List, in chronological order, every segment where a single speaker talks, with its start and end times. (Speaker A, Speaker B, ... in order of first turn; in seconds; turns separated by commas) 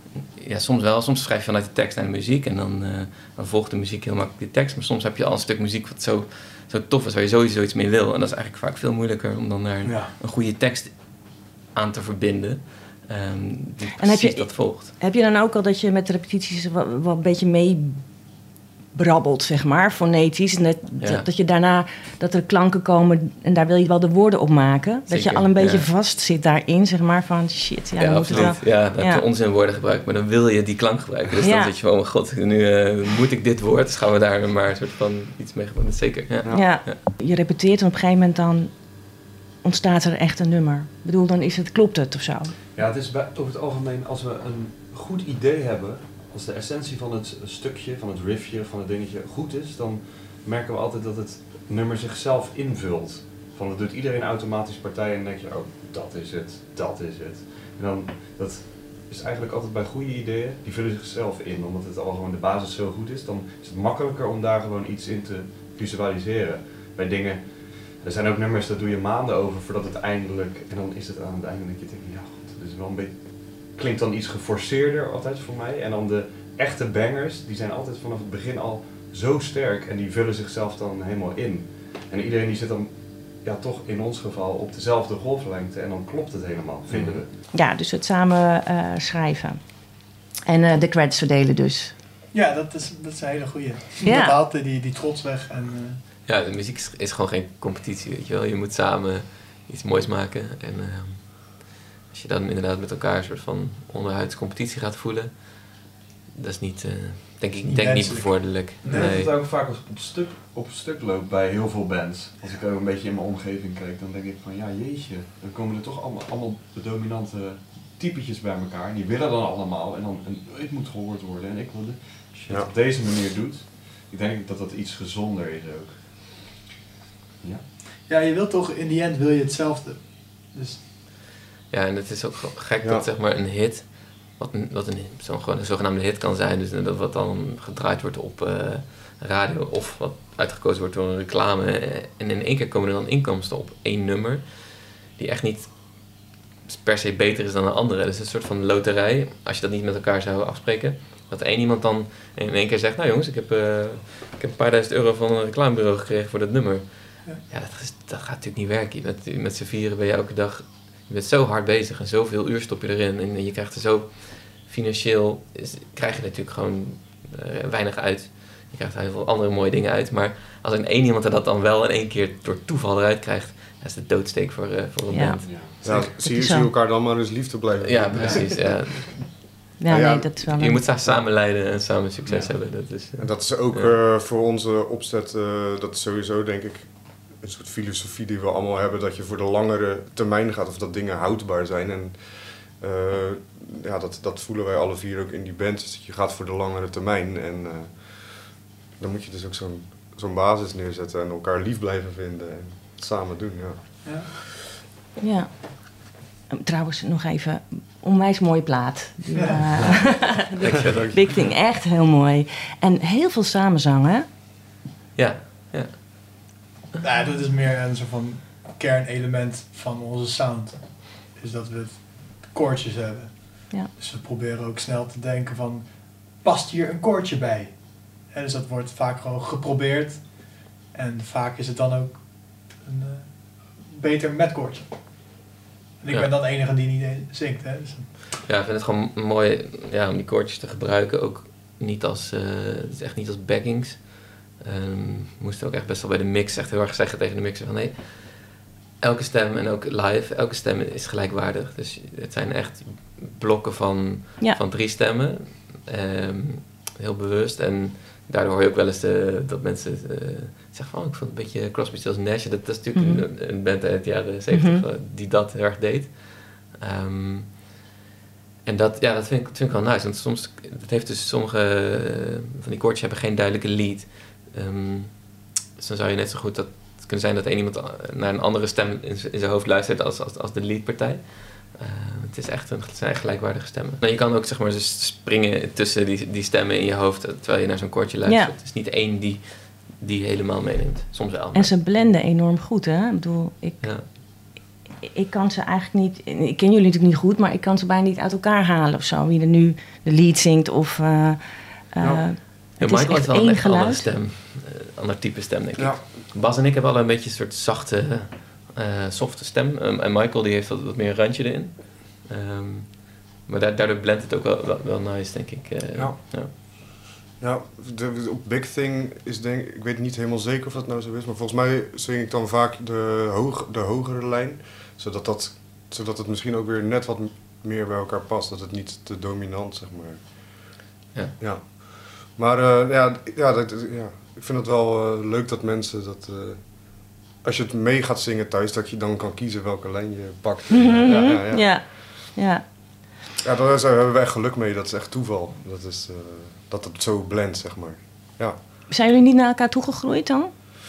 Speaker A: 0.4-14.9, Speaker B: 9.8-10.1, Speaker C: 14.0-29.3, Speaker A: 25.1-25.9, Speaker A: 28.0-37.0, Speaker C: 31.4-31.8, Speaker D: 36.4-36.8, Speaker C: 36.5-42.5, Speaker E: 42.8-87.3, Speaker D: 86.9-87.2, Speaker C: 87.5-91.9, Speaker B: 92.3-96.0, Speaker C: 94.0-94.4, Speaker A: 96.3-109.3, Speaker B: 107.7-109.2, Speaker E: 108.8-126.3, Speaker B: 128.0-130.8, Speaker A: 131.7-175.5, Speaker C: 175.1-176.7, Speaker E: 175.4-175.8, Speaker D: 175.8-178.9, Speaker A: 177.8-179.7, Speaker E: 178.1-178.6, Speaker C: 179.8-180.8, Speaker D: 179.9-181.2, Speaker A: 180.4-183.9, Speaker E: 182.2-182.6, Speaker D: 183.2-204.3, Speaker C: 205.2-214.3, Speaker B: 209.3-210.2, Speaker A: 210.6-211.4, Speaker D: 210.9-211.2, Speaker A: 215.2-216.2, Speaker B: 217.0-235.4, Speaker B: 236.0-238.1, Speaker A: 238.4-267.7, Speaker C: 262.9-263.3, Speaker C: 264.5-264.8, Speaker A: 268.6-291.8, Speaker C: 288.3-288.5, Speaker C: 291.5-304.1, Speaker A: 293.8-294.1, Speaker D: 302.0-302.3, Speaker A: 302.8-316.5, Speaker D: 305.8-306.0, Speaker D: 315.9-316.8, Speaker D: 317.4-330.8, Speaker D: 331.4-341.9, Speaker C: 340.7-342.6, Speaker D: 343.4-348.6, Speaker C: 348.9-350.5